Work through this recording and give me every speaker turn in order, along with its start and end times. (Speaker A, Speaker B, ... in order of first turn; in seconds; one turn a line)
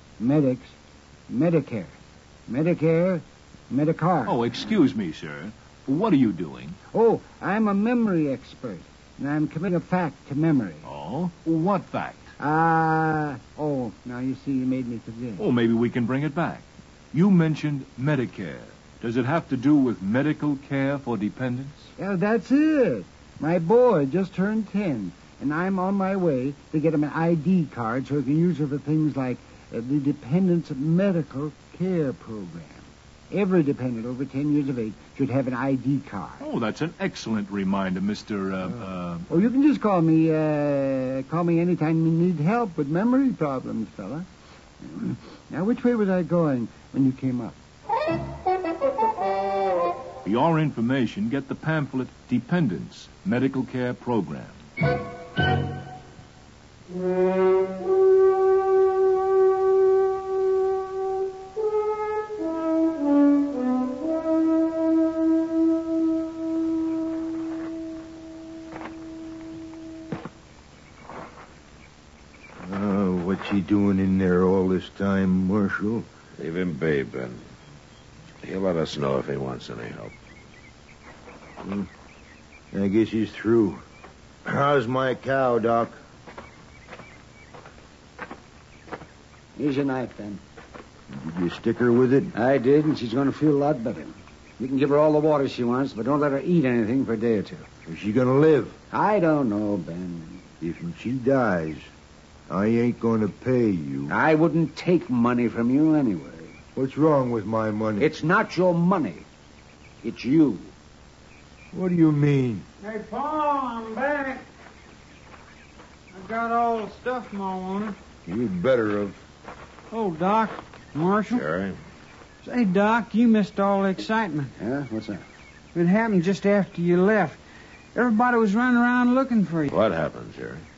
Speaker A: 0.2-0.7
Speaker A: 1.3-1.9
Speaker A: 2.5-4.6
Speaker B: 4.2-6.8
Speaker A: 6.9-10.8
Speaker B: 10.8-12.3
Speaker A: 12.4-15.4
Speaker B: 15.4-21.9
Speaker A: 22.0-36.4
Speaker B: 36.4-39.5
Speaker A: 39.3-44.2
Speaker A: 44.8-47.5
Speaker B: 50.2-54.6
Speaker C: 72.6-76.0
Speaker D: 76.4-77.4
Speaker D: 78.4-80.1
Speaker C: 81.6-81.9
Speaker C: 82.7-83.8
Speaker C: 84.5-85.9
Speaker A: 89.5-90.4
Speaker C: 91.1-92.3
Speaker A: 92.3-97.7
Speaker C: 97.9-98.8
Speaker A: 98.9-100.4
Speaker C: 100.6-101.9
Speaker C: 102.5-104.2
Speaker A: 104.1-106.5
Speaker C: 106.7-108.1
Speaker A: 108.0-109.2
Speaker A: 110.0-110.7
Speaker C: 111.7-112.7
Speaker E: 112.8-114.4
Speaker E: 116.1-118.0
Speaker C: 118.2-119.2
Speaker E: 119.9-121.4
Speaker D: 121.3-121.8
Speaker E: 122.4-124.5
Speaker A: 124.6-125.2
Speaker E: 125.7-127.4
Speaker E: 127.9-129.7
Speaker D: 129.7-130.6